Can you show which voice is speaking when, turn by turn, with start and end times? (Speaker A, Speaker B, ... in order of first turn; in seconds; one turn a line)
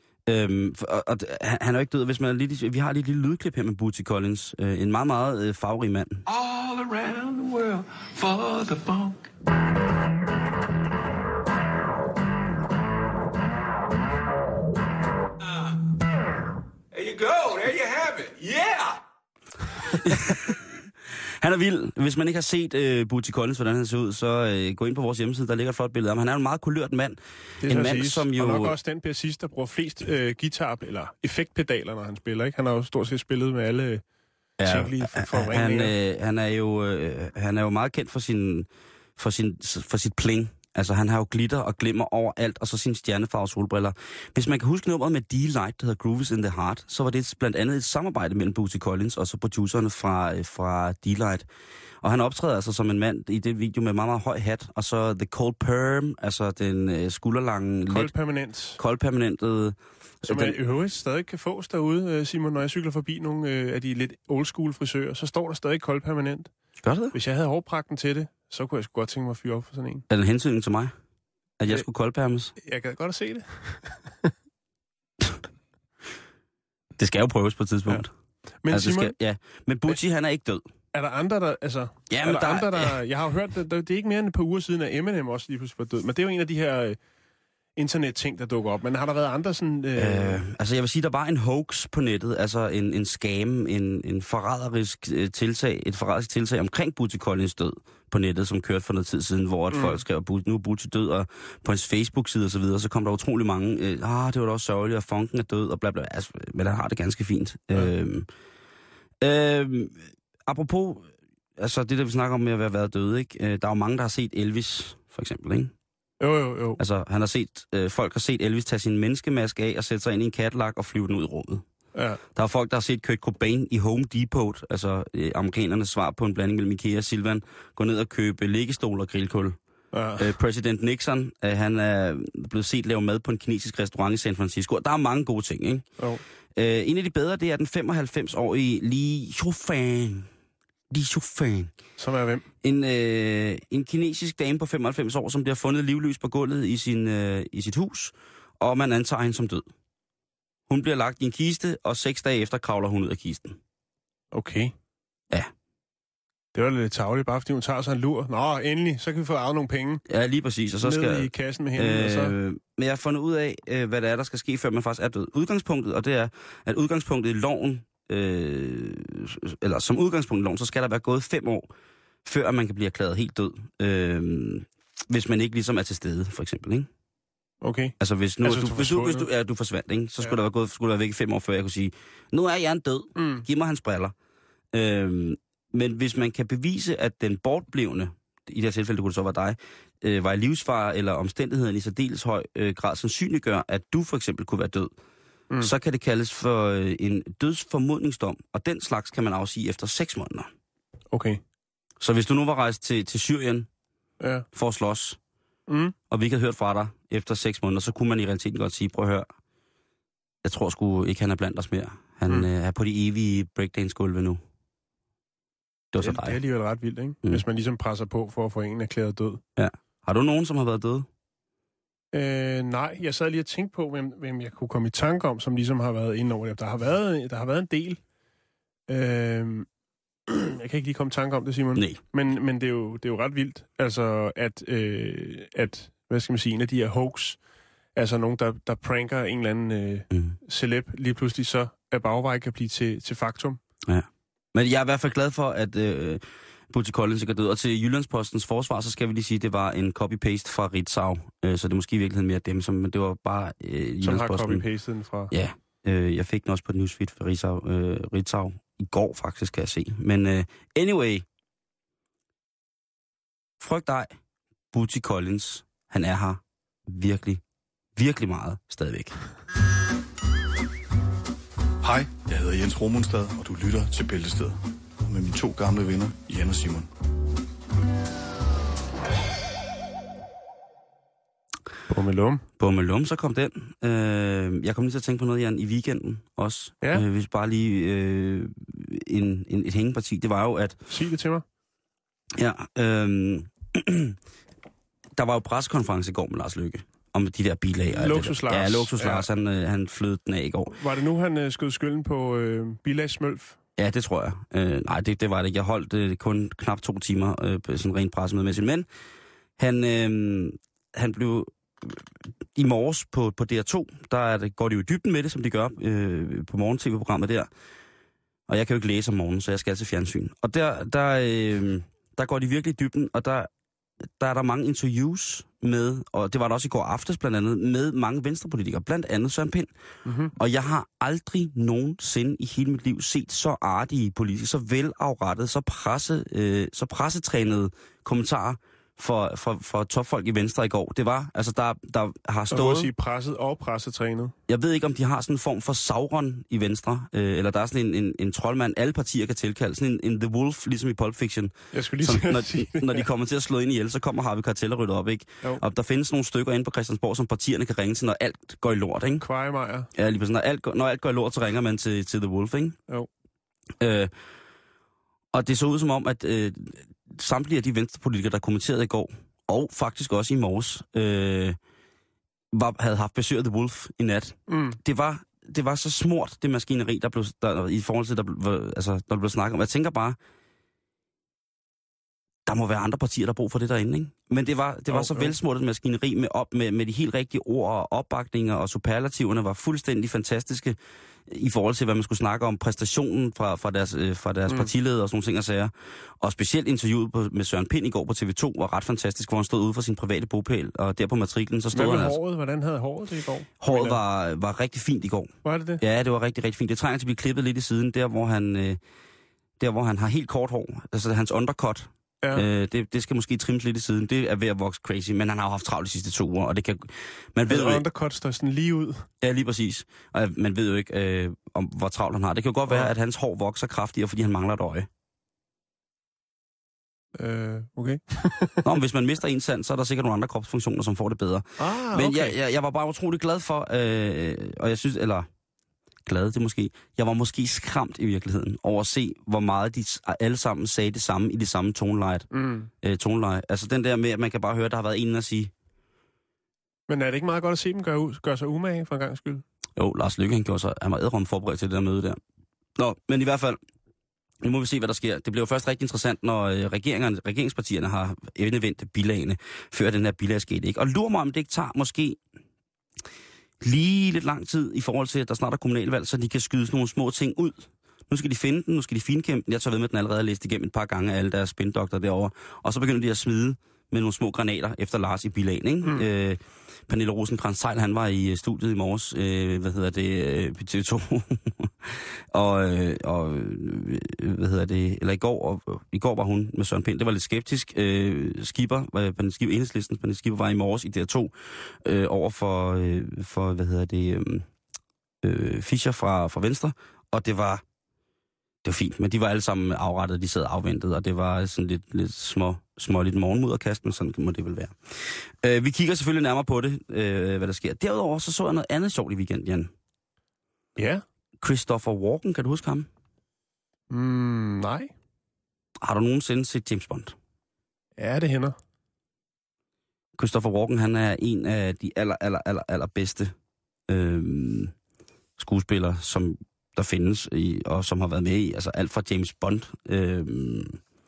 Speaker A: 0.3-6.2
Speaker B: 6.3-9.2
Speaker B: 16.9-19.0
Speaker A: 20.0-28.8
Speaker C: 27.6-34.0
Speaker A: 34.6-51.5
Speaker C: 34.6-35.9
Speaker A: 52.0-58.1
Speaker C: 57.9-58.8
Speaker A: 58.8-60.6
Speaker C: 60.2-66.5
Speaker A: 66.8-67.2
Speaker C: 67.1-70.0
Speaker A: 70.1-70.9
Speaker A: 71.6-72.5
Speaker C: 72.6-74.3
Speaker A: 77.0-78.1
Speaker C: 78.6-79.1
Speaker A: 78.7-80.7
Speaker C: 80.9-87.0
Speaker A: 82.1-83.0
Speaker C: 87.8-90.4
Speaker A: 90.0-108.3
Speaker C: 99.7-100.0
Speaker A: 109.2-115.7
Speaker C: 116.2-116.8
Speaker A: 116.8-121.6
Speaker C: 122.0-122.2
Speaker A: 122.3-129.6
Speaker C: 129.9-130.3
Speaker A: 130.2-135.9
Speaker A: 136.5-140.3
Speaker A: 140.9-141.7
Speaker C: 142.0-142.4
Speaker A: 142.6-149.7
Speaker A: 150.7-153.6
Speaker C: 154.3-154.7
Speaker C: 156.5-160.0
Speaker A: 160.1-171.7
Speaker C: 160.8-162.4
Speaker A: 172.2-176.9
Speaker C: 177.6-179.3
Speaker A: 178.0-184.1
Speaker C: 183.2-183.4
Speaker A: 184.7-194.9
Speaker A: 195.6-200.5
Speaker C: 201.1-201.4
Speaker A: 202.0-203.7
Speaker C: 204.2-204.5
Speaker A: 204.5-205.2
Speaker C: 205.7-205.9
Speaker A: 206.1-209.3
Speaker A: 210.4-214.4
Speaker A: 215.9-216.4
Speaker C: 216.0-219.4
Speaker A: 219.6-221.1
Speaker C: 222.1-228.0
Speaker C: 228.9-229.7
Speaker C: 230.3-237.4
Speaker A: 231.8-232.0
Speaker C: 237.9-243.6
Speaker A: 240.1-240.4
Speaker A: 243.9-254.6
Speaker C: 254.0-255.3
Speaker A: 255.3-261.2
Speaker A: 263.6-264.2
Speaker A: 264.7-267.4
Speaker A: 268.0-269.2
Speaker D: 271.8-276.9
Speaker C: 281.9-282.5
Speaker A: 282.6-290.8
Speaker C: 290.9-291.4
Speaker A: 292.4-294.2
Speaker A: 295.1-300.8
Speaker C: 297.9-299.2
Speaker C: 300.8-303.6
Speaker A: 303.8-308.9
Speaker A: 309.6-317.5
Speaker A: 318.5-323.5
Speaker A: 324.2-329.7
Speaker C: 330.0-330.3
Speaker A: 330.3-342.9
Speaker C: 342.5-344.3
Speaker A: 344.5-359.2
Speaker C: 351.7-353.1
Speaker C: 359.2-359.9
Speaker A: 359.9-362.8
Speaker A: 363.8-364.1
Speaker A: 365.3-371.6
Speaker A: 372.5-380.2
Speaker C: 374.5-374.8
Speaker A: 382.5-390.8
Speaker C: 384.9-385.3
Speaker A: 391.3-402.2
Speaker C: 401.7-404.0
Speaker A: 403.6-408.8
Speaker C: 405.4-405.8
Speaker A: 409.6-417.8
Speaker C: 417.5-419.1
Speaker A: 419.2-424.9
Speaker C: 427.2-428.6
Speaker A: 428.6-435.3
Speaker C: 431.6-432.3
Speaker A: 436.1-442.3
Speaker C: 442.3-442.7
Speaker A: 442.8-445.5
Speaker C: 446.9-449.4
Speaker A: 449.8-452.2
Speaker A: 452.8-453.6
Speaker A: 454.4-462.2
Speaker A: 463.6-494.5
Speaker A: 495.2-497.6
Speaker A: 498.6-509.7
Speaker C: 510.8-511.0
Speaker A: 511.4-512.9
Speaker C: 513.9-514.9
Speaker A: 515.8-517.2
Speaker C: 518.0-518.5
Speaker A: 520.2-523.3
Speaker A: 523.9-524.7
Speaker A: 525.4-530.8